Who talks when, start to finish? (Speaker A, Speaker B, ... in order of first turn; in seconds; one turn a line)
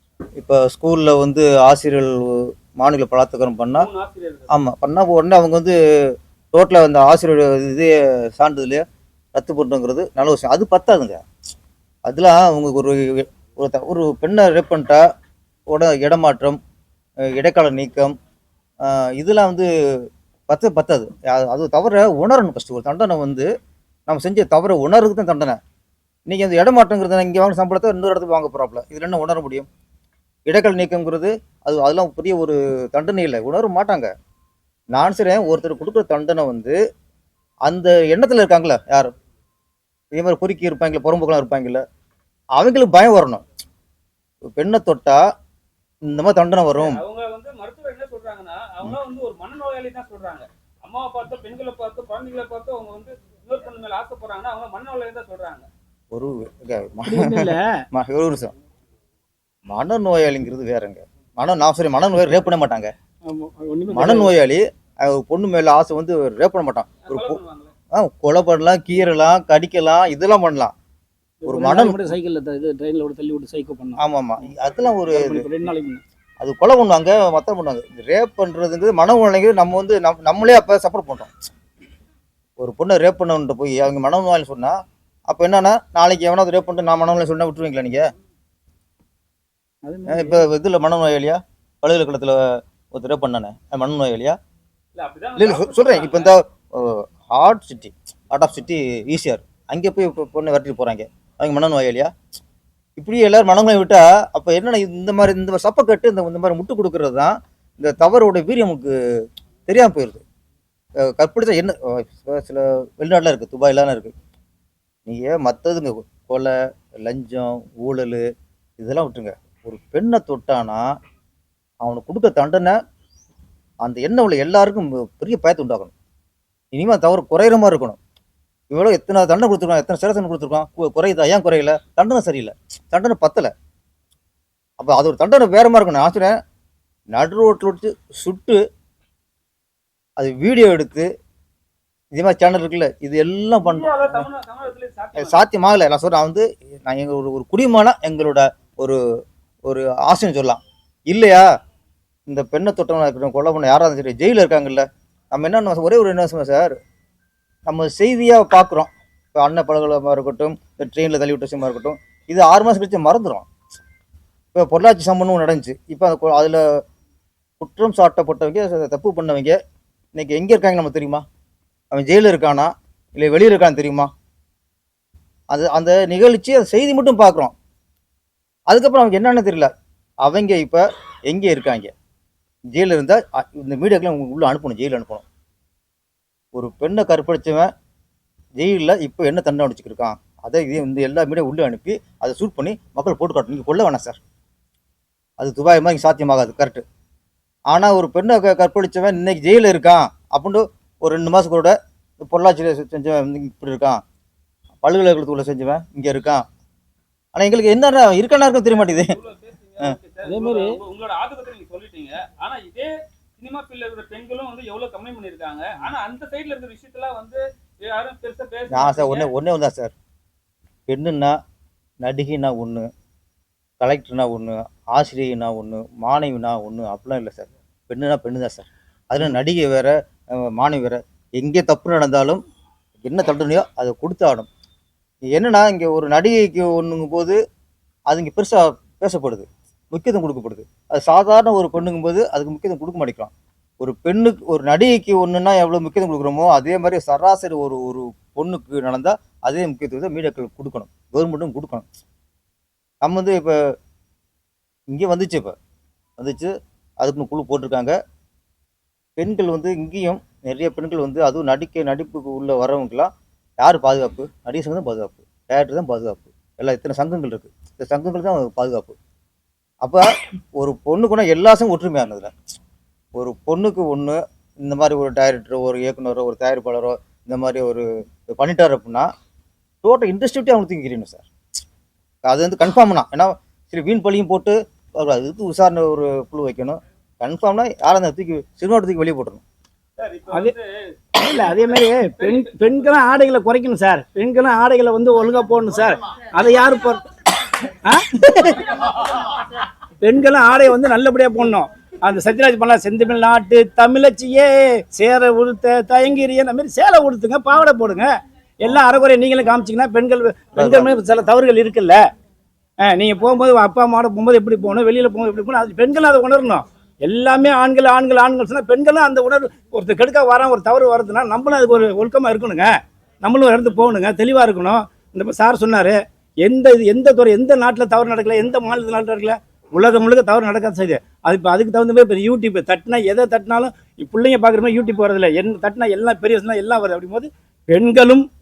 Speaker A: 0.4-3.9
Speaker B: 3.7-4.5
Speaker A: 4.5-8.8
Speaker A: 9.3-11.2
Speaker A: 12.1-15.0
Speaker A: 15.7-16.6
Speaker A: 17.3-18.1
Speaker A: 18.8-23.5
Speaker A: 24.1-25.6
Speaker A: 26.3-29.7
Speaker A: 30.5-34.1
Speaker A: 34.9-36.8
Speaker A: 37.6-39.1
Speaker A: 40.1-41.8
Speaker A: 42.6-43.4
Speaker A: 44.6-45.2
Speaker A: 46.0-47.0
Speaker B: 46.7-55.7
Speaker A: 56.1-58.5
Speaker C: 57.0-57.8
Speaker A: 59.7-62.9
Speaker C: 63.2-64.3
Speaker A: 63.9-67.4
Speaker B: 67.0-67.7
Speaker A: 67.9-70.7
Speaker C: 71.4-74.0
Speaker A: 71.4-72.0
Speaker A: 74.0-75.5
Speaker C: 75.1-76.0
Speaker A: 76.4-81.3
Speaker A: 82.6-88.0
Speaker C: 89.8-90.4
Speaker A: 90.1-94.4
Speaker B: 95.0-96.3
Speaker A: 95.4-102.1
Speaker A: 103.0-108.9
Speaker A: 109.7-110.2
Speaker A: 111.1-114.1
Speaker A: 115.1-118.2
Speaker A: 118.8-120.9
Speaker A: 121.8-122.8
Speaker A: 123.8-125.9
Speaker A: 126.7-128.0
Speaker A: 128.7-133.5
Speaker A: 134.8-136.4
Speaker A: 137.1-138.6
Speaker A: 140.2-141.1
Speaker A: 142.1-144.2
Speaker B: 143.6-145.4
Speaker A: 145.2-149.0
Speaker A: 149.7-151.4
Speaker A: 152.3-156.7
Speaker A: 157.7-163.4
Speaker A: 164.5-166.8
Speaker A: 167.6-169.6
Speaker A: 170.1-171.2
Speaker A: 171.9-174.1
Speaker A: 175.5-177.5
Speaker A: 178.7-179.7
Speaker A: 180.2-181.9
Speaker A: 182.7-185.2
Speaker A: 186.5-187.7
Speaker A: 188.6-194.2
Speaker A: 195.4-196.8
Speaker A: 197.7-204.0
Speaker A: 204.8-206.4
Speaker A: 207.3-209.1
Speaker B: 208.7-219.3
Speaker C: 210.2-210.8
Speaker A: 218.7-219.9
Speaker A: 220.9-221.4
Speaker A: 222.0-222.9
Speaker A: 223.8-232.4
Speaker A: 233.0-234.5
Speaker A: 235.3-237.4
Speaker A: 238.1-251.8
Speaker A: 253.0-253.6
Speaker A: 254.9-255.5
Speaker A: 256.2-257.9
Speaker A: 259.2-268.9
Speaker A: 269.8-272.3
Speaker A: 273.1-277.8
Speaker A: 278.4-279.1
Speaker A: 279.8-281.3
Speaker A: 282.2-289.4
Speaker B: 290.0-292.6
Speaker C: 290.3-290.5
Speaker C: 291.1-297.0
Speaker C: 297.8-298.7
Speaker C: 300.0-312.1
Speaker A: 310.6-310.9
Speaker C: 312.8-338.3